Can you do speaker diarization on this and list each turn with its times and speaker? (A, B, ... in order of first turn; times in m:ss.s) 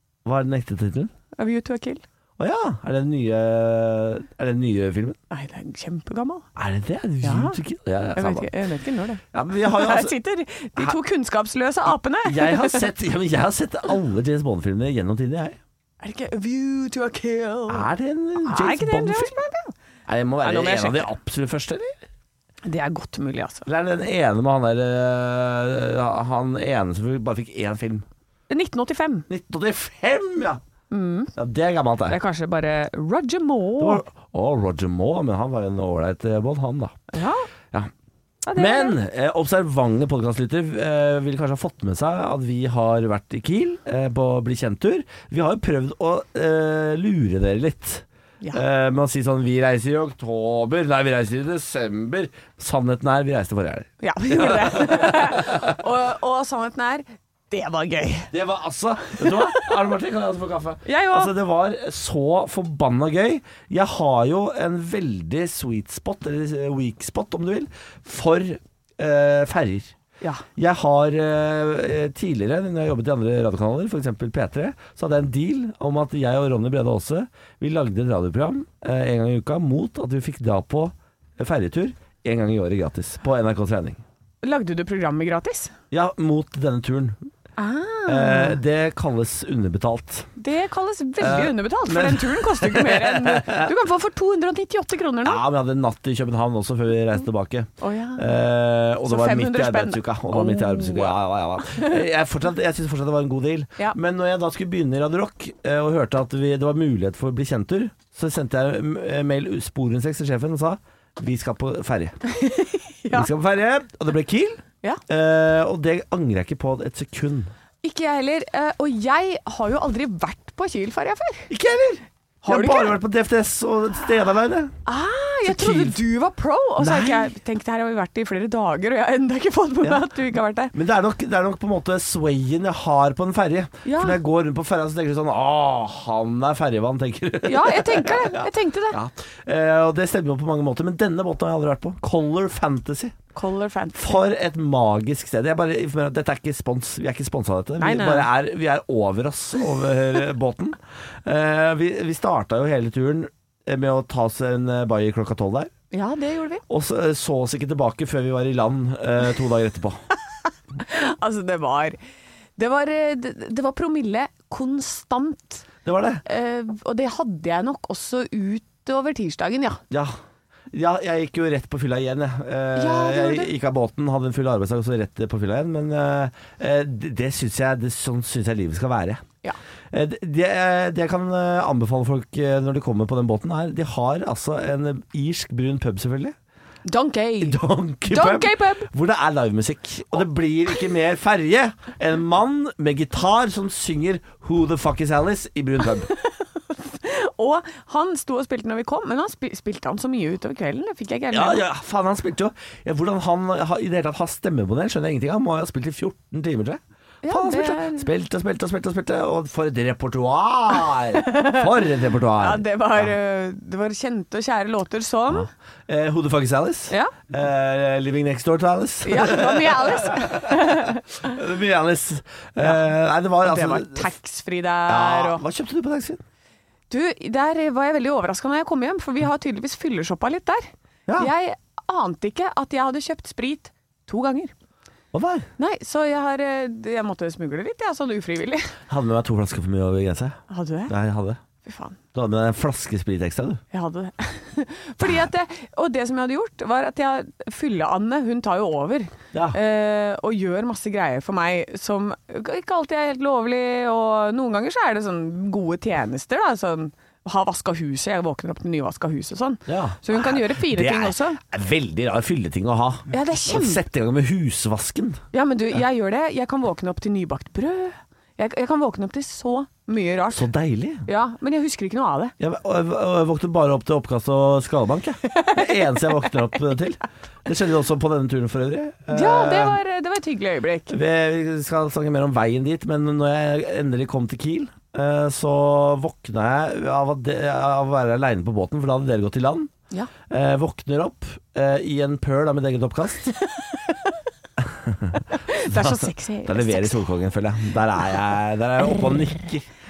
0:00.2-0:01.1 A
0:01.4-0:02.0 B
0:02.4-0:05.2 A
0:05.3-0:06.4 B
0:06.6-0:08.5 A
0:07.2-0:07.6 B
0:08.2-0:12.9 B
0:09.3-0:10.2 A
0:12.2-0:15.6 A
0:16.0-0:17.9 B
0:17.7-0:19.3 A
0:18.4-0:19.7 B
0:20.1-0:21.9 A
0:20.4-0:21.1 B
0:22.6-0:23.7 B
0:23.6-0:28.0 A
0:28.5-0:29.3 B
0:29.3-0:30.6 A
0:30.9-0:31.3 B
0:31.4-0:32.2 A
0:32.1-0:34.0 B
0:33.8-0:37.0 A
0:37.1-0:37.5 B
0:38.4-0:39.0 B
0:38.5-0:55.7 A
0:54.0-0:58.3 B
0:58.3-1:09.9 A
0:59.2-0:59.8 B
1:00.8-1:01.3 B
1:10.6-1:24.0 A
1:24.4-1:25.7 B
1:25.9-1:27.2 A
1:27.6-1:28.6 B
1:28.1-1:30.3 A
1:30.4-1:35.4 B
1:31.2-1:33.7 A
1:35.2-1:52.2 A
1:37.8-1:38.3 B
1:39.0-1:42.0 B
1:52.2-1:53.3 B
1:53.1-1:57.5 A
1:57.8-2:01.5 B
2:01.5-2:04.7 A
2:02.4-2:03.0 B
2:04.8-2:10.7 B
2:05.4-2:06.0 A
2:06.8-2:07.3 A
2:10.7-2:23.1 A
2:13.8-2:14.2 B
2:17.4-2:19.0 B
2:23.3-2:24.2 B
2:23.9-2:35.7 A
2:27.8-2:28.3 B
2:35.9-2:36.6 B
2:36.7-2:40.0 A
2:40.8-2:42.0 B
2:42.6-2:45.7 B
2:45.8-2:46.2 A
2:46.2-2:49.8 B
2:49.9-2:50.2 A
2:50.7-2:59.2 A
2:52.8-2:53.5 B
2:59.9-3:06.3 A
3:06.8-3:08.9 B
3:07.4-3:16.1 A
3:16.1-3:21.6 B
3:21.3-3:33.1 A
3:27.2-3:28.1 B
3:31.1-3:31.7 B
3:32.3-3:35.5 B
3:35.9-3:44.1 A
3:39.0-3:41.2 B
3:43.4-3:45.4 B
3:44.9-3:46.2 A
3:46.9-3:54.5 B
3:55.1-3:55.5 A
3:55.6-3:58.7 B
3:58.9-4:01.4 A
4:00.5-4:00.9 B
4:01.6-4:02.0 B
4:02.1-4:03.6 A
4:03.7-4:21.4 B
4:09.3-4:09.6 A
4:19.7-4:25.2 A
4:23.1-4:23.8 B
4:25.3-4:30.5 B
4:30.3-4:31.0 A
4:31.0-4:32.3 B
4:32.4-4:39.8 A
4:35.3-4:35.7 B
4:39.1-4:41.0 B
4:40.9-4:49.7 A
4:50.3-4:53.4 A
4:54.6-4:59.6 A
4:55.3-4:57.0 B